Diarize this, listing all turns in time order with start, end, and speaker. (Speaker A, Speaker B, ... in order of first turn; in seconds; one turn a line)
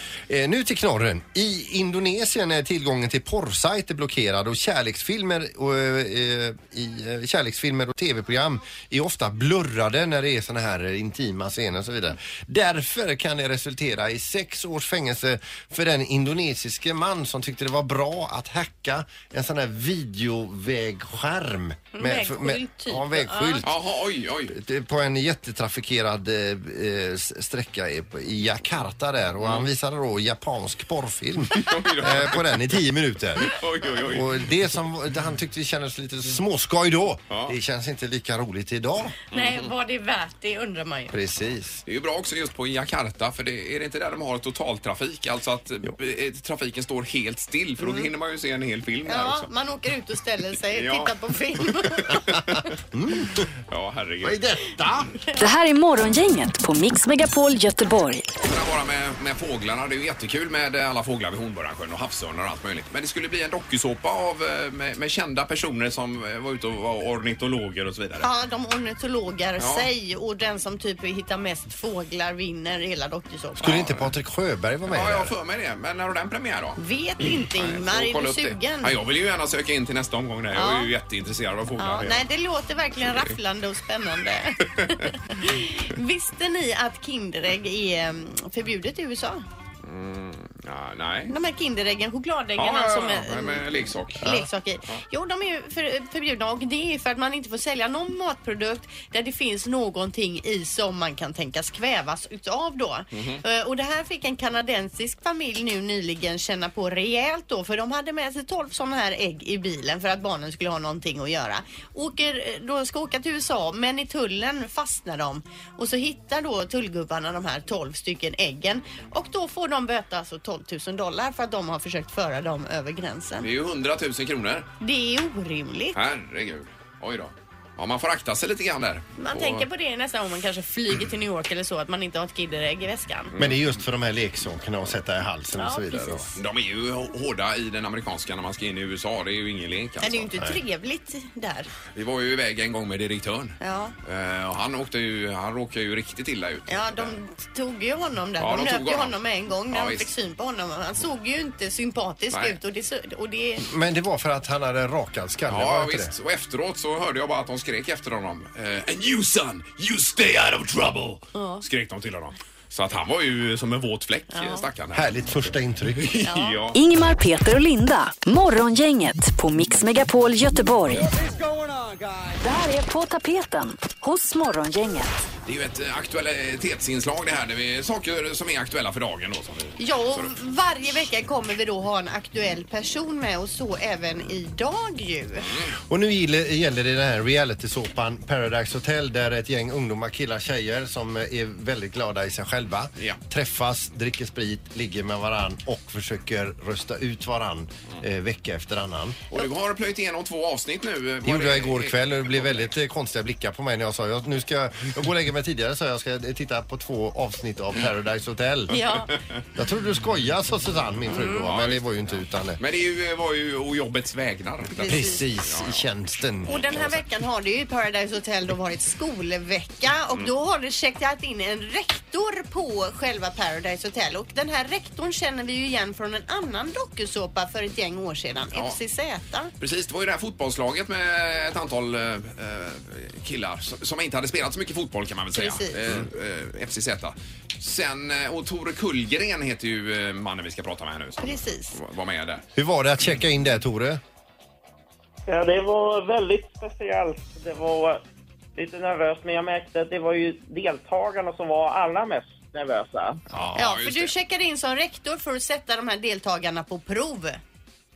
Speaker A: 0.3-23.7
Speaker B: 22.0-23.6
Speaker C: 23.6-24.6
Speaker A: 24.5-39.1
Speaker C: 31.5-32.4
Speaker C: 33.4-34.5
Speaker C: 37.3-37.5
Speaker C: 39.3-39.7
Speaker B: 39.3-41.1
Speaker A: 41.1-41.8
Speaker C: 41.9-49.5
Speaker B: 47.8-48.1
Speaker B: 49.0-52.0
Speaker C: 50.7-51.1
Speaker C: 52.0-52.6
Speaker A: 52.9-53.5
Speaker C: 53.7-55.0
Speaker A: 54.2-55.1
Speaker D: 55.4-58.3
Speaker C: 58.4-68.3
Speaker B: 68.2-73.7
Speaker C: 69.6-69.9
Speaker A: 73.6-75.3
Speaker C: 73.6-74.1
Speaker C: 74.9-82.2
Speaker B: 76.8-78.9
Speaker B: 80.5-80.9
Speaker B: 81.8-84.6
Speaker B: 85.3-89.4
Speaker C: 89.8-91.3
Speaker B: 91.3-93.6
Speaker C: 92.6-95.0
Speaker B: 94.2-123.5
Speaker C: 103.1-103.4
Speaker C: 123.4-124.7
Speaker B: 124.8-126.0
Speaker C: 125.9-129.7
Speaker B: 129.2-133.3
Speaker C: 133.3-133.7
Speaker A: 133.4-136.3
Speaker B: 135.6-136.2
Speaker C: 136.3-140.3
Speaker B: 140.0-141.7
Speaker C: 141.9-147.2
Speaker B: 143.6-143.9
Speaker B: 146.7-153.7
Speaker C: 148.4-149.2
Speaker C: 149.7-150.1
Speaker C: 152.3-152.6
Speaker A: 153.6-156.1
Speaker C: 155.5-166.8
Speaker B: 161.3-161.6
Speaker B: 164.3-164.6
Speaker A: 164.9-166.3
Speaker B: 166.2-166.6
Speaker D: 166.7-171.1
Speaker D: 172.4-175.1
Speaker C: 175.4-180.3
Speaker B: 179.8-185.5
Speaker C: 185.4-185.7
Speaker A: 185.9-199.2
Speaker C: 199.3-202.7
Speaker A: 201.2-208.8
Speaker B: 208.7-209.1
Speaker A: 209.5-212.6
Speaker C: 211.2-215.8
Speaker A: 214.8-217.0
Speaker B: 214.8-215.2
Speaker B: 216.5-229.5
Speaker C: 229.6-242.4
Speaker B: 235.3-235.8
Speaker B: 241.2-241.7
Speaker A: 242.6-244.0
Speaker E: 245.3-248.0
Speaker E: 248.5-253.2
Speaker C: 253.3-254.1
Speaker B: 253.5-257.4